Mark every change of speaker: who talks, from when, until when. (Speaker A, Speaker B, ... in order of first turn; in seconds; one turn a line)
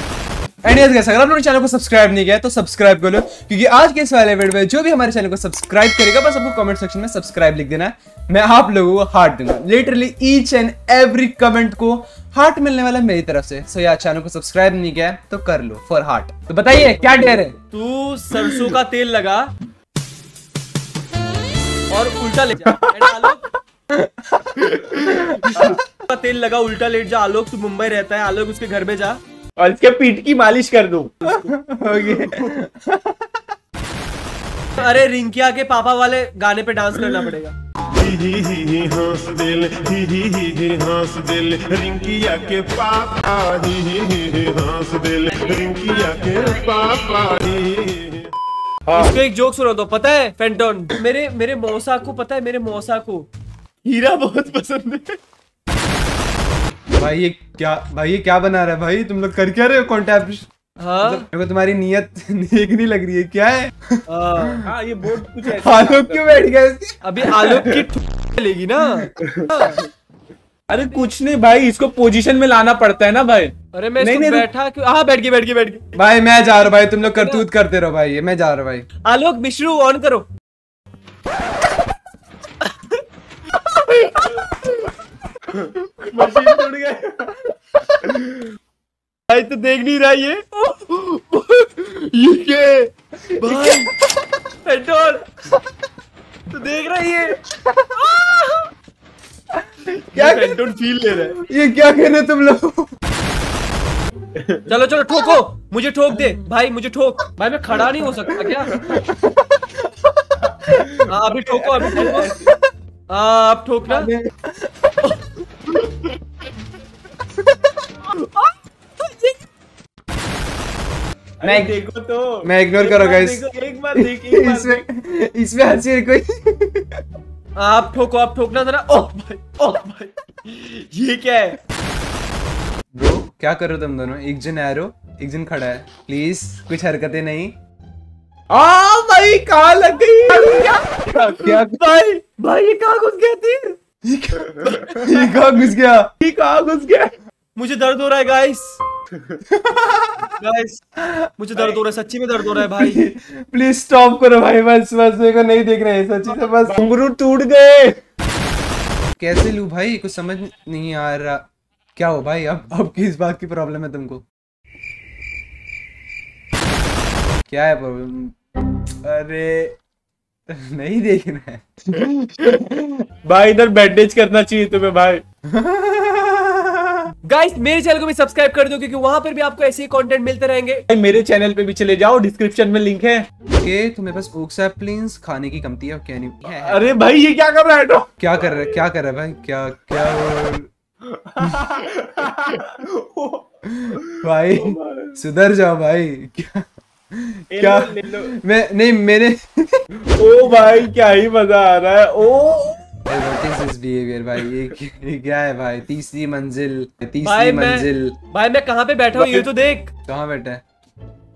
Speaker A: 0.6-17.5
Speaker B: 17.0-19.5
Speaker B: 21.9-23.4
Speaker C: 22.6-22.9
Speaker A: 23.9-25.8
Speaker B: 25.6-29.2
Speaker C: 29.6-31.1
Speaker B: 31.2-31.5
Speaker A: 31.3-33.5
Speaker C: 32.0-32.5
Speaker B: 34.8-37.5
Speaker D: 37.9-48.3
Speaker C: 48.9-49.1
Speaker B: 48.9-53.3
Speaker B: 53.8-55.2
Speaker A: 57.0-60.5
Speaker B: 60.8-61.2
Speaker A: 61.0-64.7
Speaker B: 64.1-64.6
Speaker C: 64.7-66.5
Speaker A: 65.5-67.4
Speaker B: 67.0-69.8
Speaker C: 69.2-69.9
Speaker C: 70.7-74.5
Speaker B: 73.7-75.8
Speaker A: 75.9-78.9
Speaker B: 77.0-77.4
Speaker B: 79.0-80.2
Speaker C: 85.5-87.3
Speaker C: 88.0-88.4
Speaker B: 89.3-93.9
Speaker A: 93.4-94.2
Speaker B: 94.6-95.2
Speaker B: 96.5-97.4
Speaker A: 97.5-98.2
Speaker B: 98.0-98.7
Speaker A: 99.5-100.6
Speaker B: 100.1-101.3
Speaker A: 101.1-103.0
Speaker C: 104.3-104.6
Speaker B: 104.7-108.7
Speaker A: 108.3-110.9
Speaker B: 111.1-112.3
Speaker C: 111.4-112.5
Speaker A: 111.9-112.5
Speaker B: 113.1-114.1
Speaker A: 113.9-115.1
Speaker A: 117.3-117.7
Speaker C: 121.4-124.8
Speaker A: 121.4-121.7
Speaker A: 122.4-123.4
Speaker A: 123.9-127.0
Speaker B: 127.5-131.6
Speaker A: 132.9-137.5
Speaker C: 138.5-141.5
Speaker B: 140.4-143.8
Speaker A: 141.4-141.8
Speaker A: 144.0-146.1
Speaker C: 144.5-144.9
Speaker C: 146.2-147.1
Speaker B: 147.6-148.8
Speaker A: 149.5-150.3
Speaker B: 150.4-150.8
Speaker A: 151.0-151.3
Speaker B: 151.4-153.0
Speaker A: 152.6-156.8
Speaker C: 156.5-158.0
Speaker A: 159.2-161.4
Speaker A: 161.9-164.2
Speaker A: 167.5-168.4
Speaker A: 169.0-169.8
Speaker A: 170.5-172.9
Speaker C: 172.0-172.5
Speaker C: 173.2-175.2
Speaker A: 175.5-177.1
Speaker B: 177.3-180.8
Speaker C: 180.9-183.2
Speaker A: 183.6-186.9
Speaker C: 186.5-188.7
Speaker A: 188.2-190.7
Speaker C: 191.1-195.2
Speaker A: 193.6-199.8
Speaker C: 197.5-198.3
Speaker C: 200.2-202.8
Speaker A: 203.1-208.2
Speaker B: 207.2-209.9
Speaker C: 209.1-209.5
Speaker A: 210.1-210.6